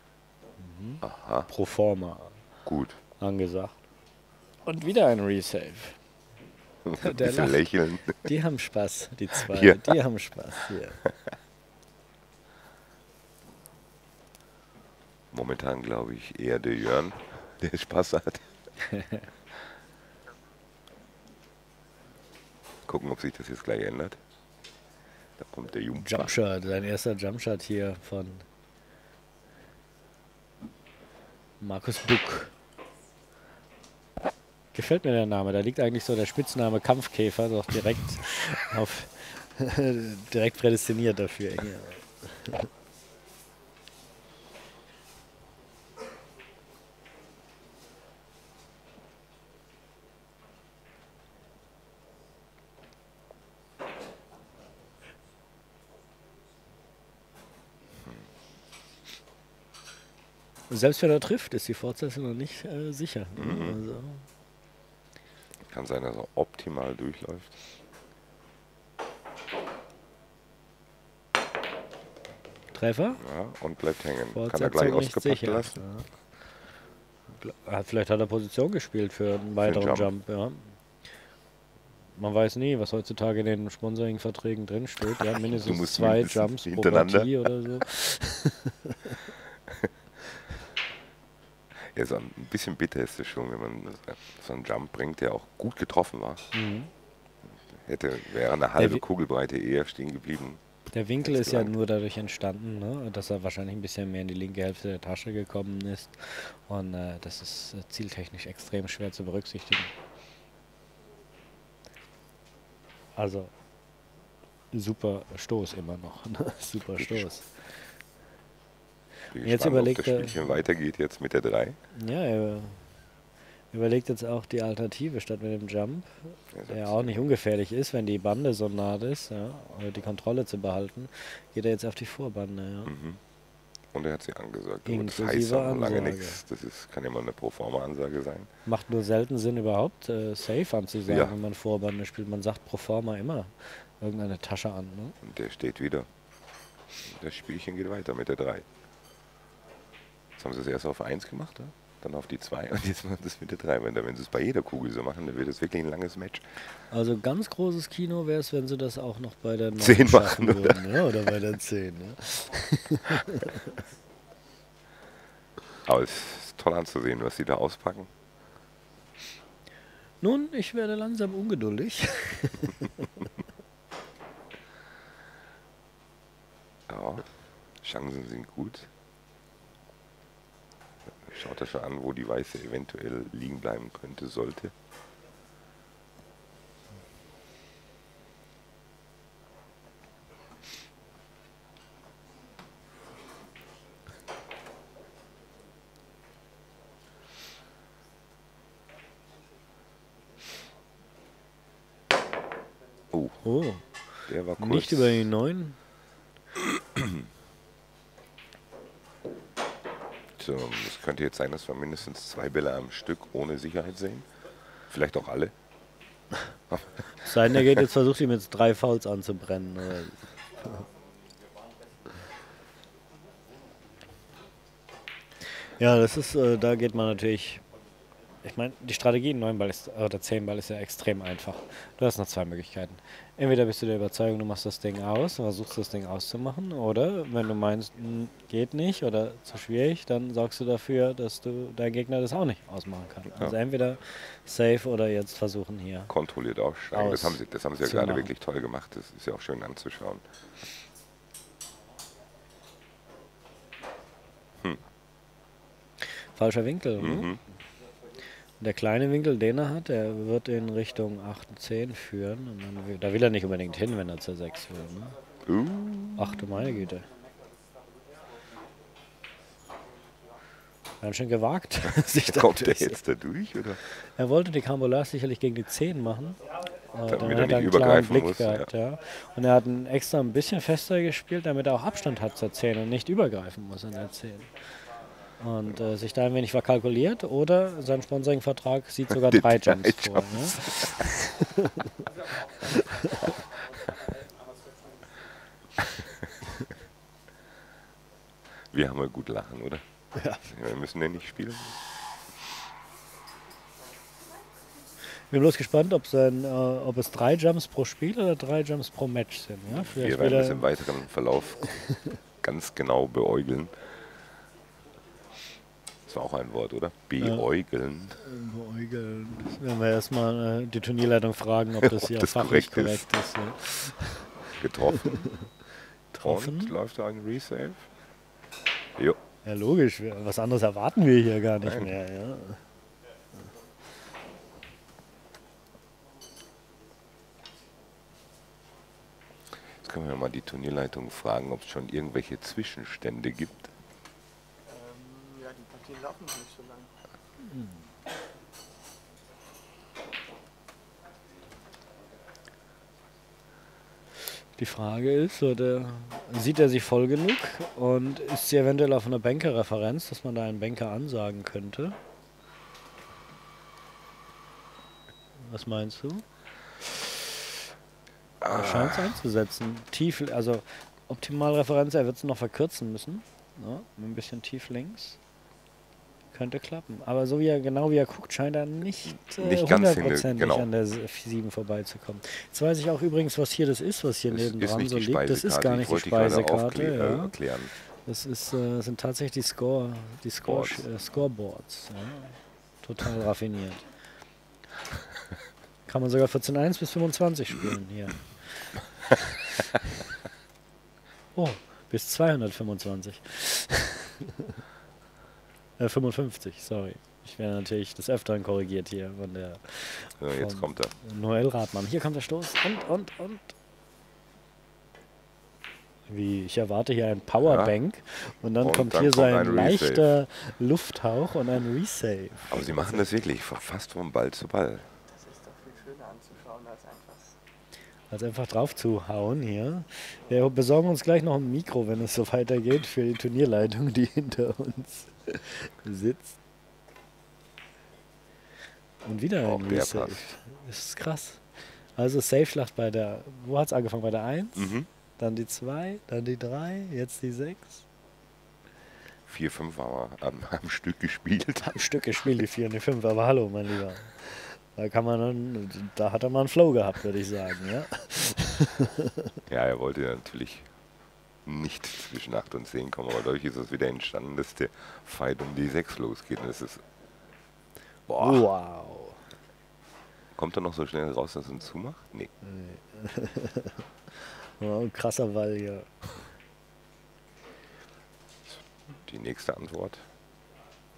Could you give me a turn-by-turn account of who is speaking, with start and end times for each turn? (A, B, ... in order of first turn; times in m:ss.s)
0:00.6-0:02.4 A
0:01.0-0:01.5 B
0:02.6-0:03.0 B
0:03.2-0:03.8 A
0:04.7-0:06.0 A
0:06.8-0:08.3 B
0:07.0-0:07.7 A
0:08.2-0:11.0 A
0:09.5-0:09.8 B
0:15.3-0:18.5 B
0:18.8-0:19.3 A
0:22.9-0:24.2 B
0:25.4-0:26.3 B
0:26.0-0:28.4 A
0:31.6-0:32.5 A
0:34.7-0:42.7 A
1:00.7-1:04.2 A
1:03.4-1:03.8 B
1:05.7-1:07.6 B
1:12.7-1:13.2 A
1:13.2-1:15.8 B
1:14.3-1:16.1 A
1:17.4-1:20.8 A
1:19.6-1:20.1 B
1:22.2-1:29.2 A
1:25.2-1:27.5 B
1:31.7-1:36.5 B
1:36.5-1:36.9 A
1:37.5-1:40.6 B
1:40.9-1:49.9 A
1:41.2-1:41.7 B
1:53.2-1:53.5 A
1:54.7-1:57.5 A
1:57.0-1:57.3 B
1:59.3-2:01.8 B
1:59.3-2:00.5 A
2:01.9-2:02.8 A
2:03.7-2:12.9 A
2:06.5-2:07.2 B
2:12.9-2:13.2 B
2:13.9-2:18.5 B
2:14.9-2:16.4 A
2:18.7-2:25.2 A
2:21.1-2:21.3 B
2:25.2-2:26.1 B
2:27.0-2:28.7 B
2:30.4-2:36.5 B
2:36.9-2:43.8 A
2:39.8-2:41.3 B
2:45.8-2:48.1 B
2:50.2-2:53.1 A
2:56.9-2:57.3 B
2:57.8-2:58.9 B
3:01.2-3:04.8 B
3:23.1-3:23.4 B
3:23.4-3:23.9 A
3:24.3-3:25.3 B
3:24.6-3:25.8 A
3:26.6-3:27.2 B
3:30.4-3:34.3 B
3:34.9-3:35.5 B
3:36.7-3:37.2 B
3:37.2-3:40.8 A
3:45.8-3:47.6 A
3:48.4-4:06.1 A
4:06.1-4:10.2 B
4:06.9-4:08.3 A
4:16.0-4:17.4 A
4:17.0-4:17.4 B
4:18.6-4:25.2 A
4:25.5-4:26.5 B
4:26.2-4:27.1 A
4:31.0-4:33.0 A
4:32.2-4:33.8 B
4:33.9-4:36.4 A
4:36.9-4:44.5 A
4:37.1-4:38.7 B
4:45.4-4:51.9 A
4:49.1-4:50.9 B
4:52.7-4:53.3 A
4:58.7-4:59.8 B
5:00.2-5:00.4 A
5:00.4-5:01.8 B
5:05.2-5:10.7 A
5:09.7-5:11.8 B
5:12.4-5:13.8 B
5:16.1-5:18.2 B
5:17.2-5:17.4 A
5:18.2-5:25.5 A
5:21.8-5:23.1 B
5:24.6-5:25.3 B
5:26.1-5:26.7 A
5:26.2-5:27.9 B
5:29.4-5:32.6 A
5:31.6-5:31.9 B
5:39.8-5:43.7 B
5:44.7-5:46.9 C
5:47.5-5:47.8 A
5:54.6-6:02.0 A
6:05.4-6:06.2 A
6:08.4-6:09.2 B
6:08.5-6:15.2 A
6:16.3-6:27.4 A
6:19.1-6:20.7 B
6:24.3-6:27.7 B
6:28.1-6:33.8 A
6:30.4-6:30.8 B
6:35.9-6:39.8 A
6:41.4-6:44.5 A
6:45.8-6:53.6 A
6:50.2-6:50.9 B
6:56.1-7:03.0 A
6:57.4-6:57.8 B
6:58.6-7:00.1 B
7:02.5-7:04.9 B
7:05.1-7:07.4 C
7:08.1-7:16.4 A
7:19.0-7:27.8 A
7:19.4-7:20.3 B
7:24.6-7:24.9 B
7:29.3-7:31.8 B
7:31.6-7:39.4 A
7:39.5-7:40.7 B
7:41.4-7:46.8 B
7:48.1-7:48.5 B
7:48.2-7:49.2 A
7:50.4-7:52.3 B
7:52.4-7:55.9 A
7:58.5-8:00.1 B